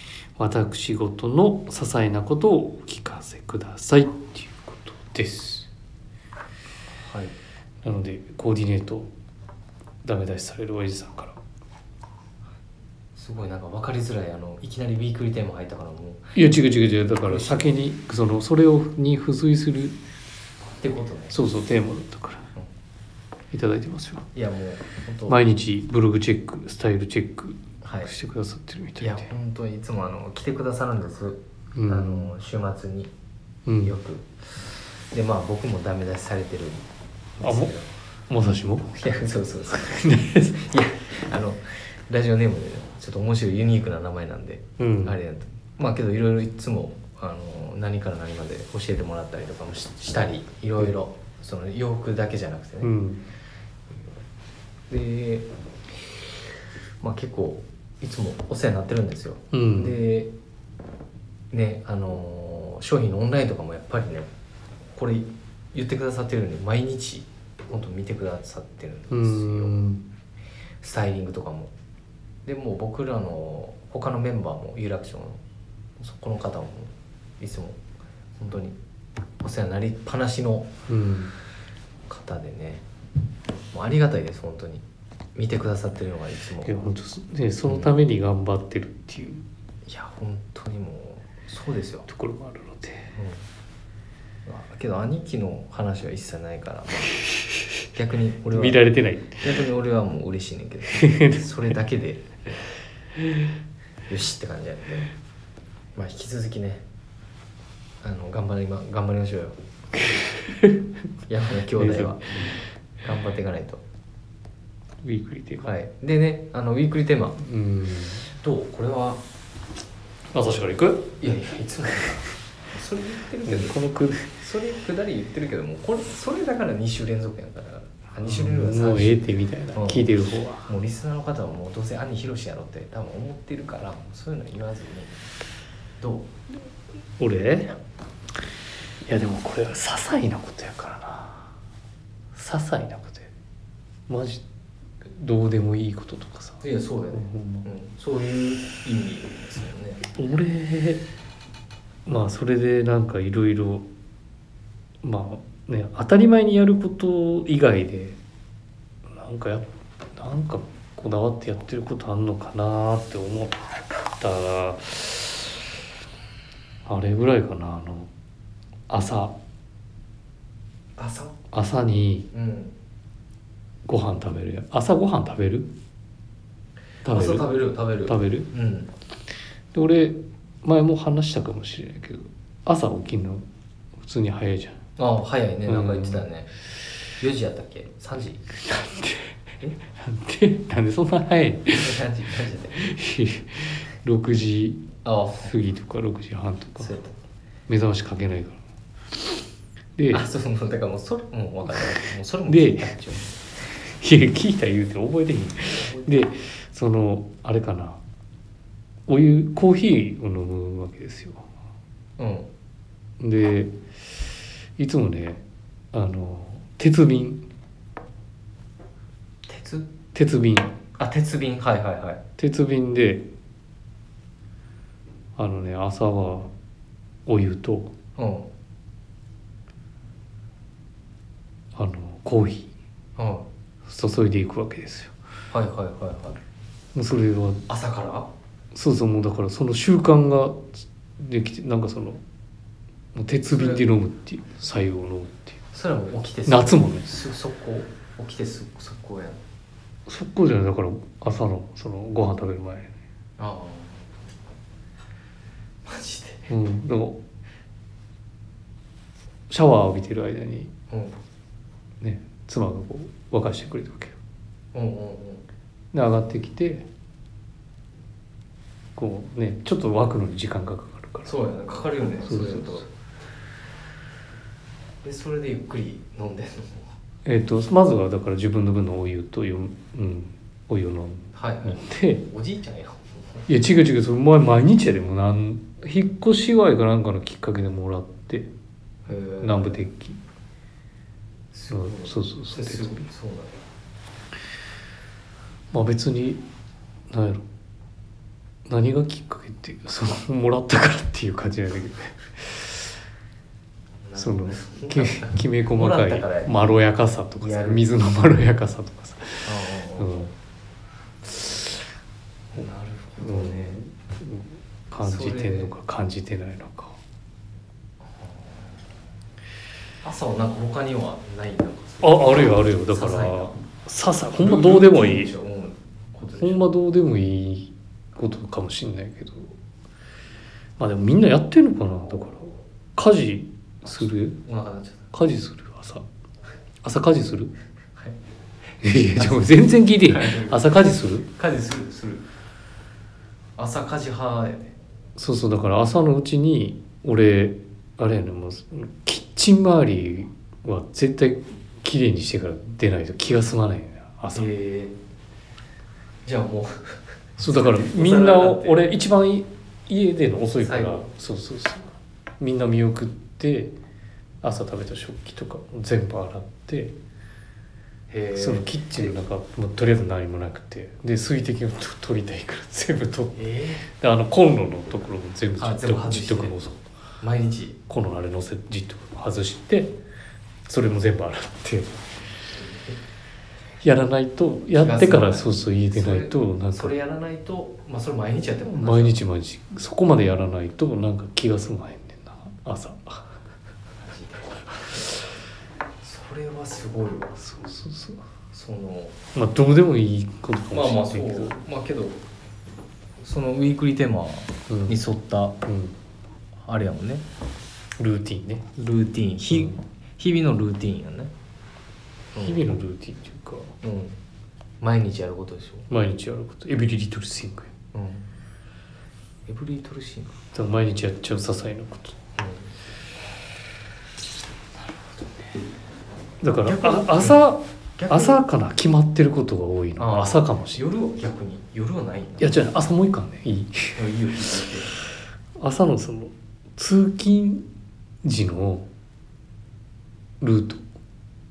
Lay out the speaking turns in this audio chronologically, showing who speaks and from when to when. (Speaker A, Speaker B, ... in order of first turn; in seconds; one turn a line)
Speaker A: 0.4-5.7
Speaker B: 7.0-7.3
Speaker A: 7.8-9.1
Speaker A: 10.0-11.4
Speaker B: 13.1-16.5
Speaker A: 16.4-20.0
Speaker B: 17.2-17.7
Speaker B: 20.8-21.4
Speaker A: 21.3-22.5
Speaker A: 23.5-24.2
Speaker B: 24.4-25.4
Speaker A: 25.3-29.3
Speaker B: 27.8-28.1
Speaker B: 29.0-33.1
Speaker A: 31.8-32.3
Speaker A: 33.6-34.0
Speaker B: 33.8-36.9
Speaker A: 37.4-37.7
Speaker B: 37.4-37.9
Speaker A: 38.3-39.0
Speaker B: 38.9-53.0
Speaker A: 39.7-40.5
Speaker A: 44.8-45.2
Speaker A: 52.8-53.2
Speaker B: 54.9-55.5
Speaker B: 57.0-60.3
Speaker A: 59.5-60.0
Speaker B: 61.5-64.3
Speaker B: 65.0-69.8
Speaker A: 69.1-70.0
Speaker B: 70.8-71.7
Speaker B: 72.5-75.4
Speaker B: 76.0-77.8
Speaker B: 78.4-78.8
Speaker B: 79.4-80.7
Speaker A: 80.9-81.3
Speaker B: 82.1-82.8
Speaker B: 83.7-84.8
Speaker B: 85.3-86.9
Speaker A: 86.6-89.5
Speaker B: 87.7-87.9
Speaker B: 89.9-92.1
Speaker A: 92.1-93.1
Speaker B: 93.1-93.5
Speaker B: 94.5-97.2
Speaker B: 97.9-98.8
Speaker A: 98.5-99.4
Speaker B: 99.3-102.2
Speaker A: 100.9-101.4
Speaker B: 104.1-105.1
Speaker B: 106.0-106.8
Speaker B: 108.0-109.6
Speaker A: 110.5-110.8
Speaker B: 111.3-112.4
Speaker A: 111.8-112.5
Speaker B: 113.0-113.8
Speaker A: 115.0-115.7
Speaker B: 115.6-117.4
Speaker A: 117.4-118.2
Speaker B: 118.2-119.2
Speaker A: 120.3-121.1
Speaker B: 121.2-123.8
Speaker A: 123.5-124.3
Speaker B: 124.4-129.2
Speaker A: 128.2-130.7
Speaker B: 129.7-130.1
Speaker B: 130.7-135.3
Speaker B: 136.0-136.3
Speaker A: 137.2-137.8
Speaker A: 139.0-141.5
Speaker A: 142.3-143.3
Speaker A: 144.1-144.4
Speaker A: 145.0-147.7
Speaker B: 146.6-150.0
Speaker A: 150.1-151.0
Speaker A: 152.1-153.9
Speaker A: 155.0-158.2
Speaker A: 159.1-163.6
Speaker A: 164.2-165.5
Speaker A: 166.9-168.1
Speaker A: 168.9-169.3
Speaker B: 171.0-171.4
Speaker A: 171.5-172.3
Speaker B: 172.3-172.7
Speaker A: 173.9-175.7
Speaker B: 177.0-178.9
Speaker A: 177.0-177.5
Speaker A: 178.1-178.5
Speaker A: 179.7-183.4
Speaker A: 184.0-184.8
Speaker B: 185.0-186.5
Speaker A: 185.7-186.2
Speaker B: 187.2-188.5
Speaker A: 188.6-189.4
Speaker A: 189.9-192.0
Speaker B: 191.8-192.9
Speaker A: 192.7-196.9
Speaker B: 195.0-195.5
Speaker B: 196.8-197.1
Speaker A: 197.7-198.6
Speaker A: 200.0-200.2
Speaker B: 200.1-203.5
Speaker A: 202.5-203.0
Speaker A: 203.8-208.0
Speaker B: 205.7-206.2
Speaker A: 209.1-211.5
Speaker B: 212.2-212.5
Speaker A: 213.2-213.8
Speaker A: 214.8-217.4
Speaker B: 219.5-219.9
Speaker A: 220.1-220.7
Speaker B: 221.0-222.2
Speaker A: 222.4-223.3
Speaker A: 225.4-226.5
Speaker A: 227.2-227.9
Speaker B: 228.2-228.5
Speaker A: 231.8-232.7
Speaker B: 233.2-233.5
Speaker A: 233.9-235.1
Speaker B: 235.5-236.4
Speaker A: 236.9-237.6
Speaker B: 237.7-238.3
Speaker A: 238.7-242.2
Speaker A: 243.1-245.6
Speaker B: 243.5-243.8
Speaker B: 245.7-249.4
Speaker A: 246.5-247.1
Speaker A: 250.1-253.0
Speaker B: 253.4-254.1
Speaker B: 255.8-256.5
Speaker A: 256.5-257.2
Speaker A: 259.5-260.7
Speaker B: 260.9-261.2
Speaker A: 262.0-264.2
Speaker B: 264.7-265.4
Speaker A: 265.9-266.9
Speaker A: 269.0-271.4
Speaker B: 271.2-272.9
Speaker A: 272.2-272.8
Speaker B: 275.0-276.9
Speaker A: 277.2-282.2
Speaker B: 281.3-283.5
Speaker A: 283.5-288.5
Speaker B: 289.1-289.8
Speaker A: 289.4-290.2
Speaker B: 291.5-293.6
Speaker A: 291.7-293.0
Speaker A: 295.7-296.4
Speaker A: 297.1-297.4
Speaker A: 298.6-303.0
Speaker B: 304.0-306.8
Speaker A: 304.1-310.3
Speaker B: 307.4-307.9
Speaker B: 309.4-310.3
Speaker A: 311.3-311.8
Speaker B: 312.5-313.8
Speaker A: 313.2-317.0
Speaker B: 315.0-315.7
Speaker B: 318.0-318.8
Speaker B: 320.0-323.6
Speaker A: 322.0-325.3
Speaker B: 324.3-326.6
Speaker A: 326.4-329.5
Speaker A: 330.8-334.4
Speaker B: 334.4-335.1
Speaker A: 335.1-336.0
Speaker A: 336.8-337.5
Speaker A: 338.8-341.3
Speaker B: 339.1-340.7
Speaker B: 341.2-342.2
Speaker B: 343.6-344.8
Speaker A: 345.1-354.5
Speaker B: 354.4-354.9
Speaker B: 356.2-358.8
Speaker A: 357.4-361.9
Speaker B: 360.6-361.1
Speaker A: 362.4-363.8
Speaker A: 364.4-367.0
Speaker B: 368.1-369.1
Speaker A: 368.4-376.8
Speaker B: 373.4-373.9
Speaker B: 375.6-376.6
Speaker B: 377.2-377.8
Speaker A: 377.9-379.9
Speaker A: 380.7-382.0
Speaker B: 382.5-383.0
Speaker A: 383.8-386.9
Speaker B: 384.8-389.2
Speaker A: 388.7-393.3
Speaker B: 394.0-395.2
Speaker B: 396.0-397.4
Speaker A: 397.4-398.2
Speaker B: 398.5-399.1
Speaker A: 399.4-401.6
Speaker B: 400.7-402.2
Speaker B: 403.2-405.6
Speaker A: 404.7-405.0
Speaker A: 405.6-405.9
Speaker B: 406.7-407.2
Speaker A: 408.0-408.7
Speaker B: 408.8-411.3
Speaker B: 412.3-412.8
Speaker A: 412.4-413.7
Speaker B: 413.8-414.1
Speaker B: 414.8-415.9
Speaker A: 415.9-417.7
Speaker B: 417.9-418.3
Speaker B: 419.5-420.4
Speaker A: 420.5-422.2
Speaker B: 422.4-422.7
Speaker B: 424.8-425.6
Speaker A: 426.4-430.8
Speaker B: 426.6-427.4
Speaker B: 428.0-428.4
Speaker B: 430.0-432.6
Speaker A: 432.4-434.0
Speaker B: 433.9-434.9
Speaker A: 435.6-437.7
Speaker A: 438.2-438.9
Speaker A: 440.4-440.8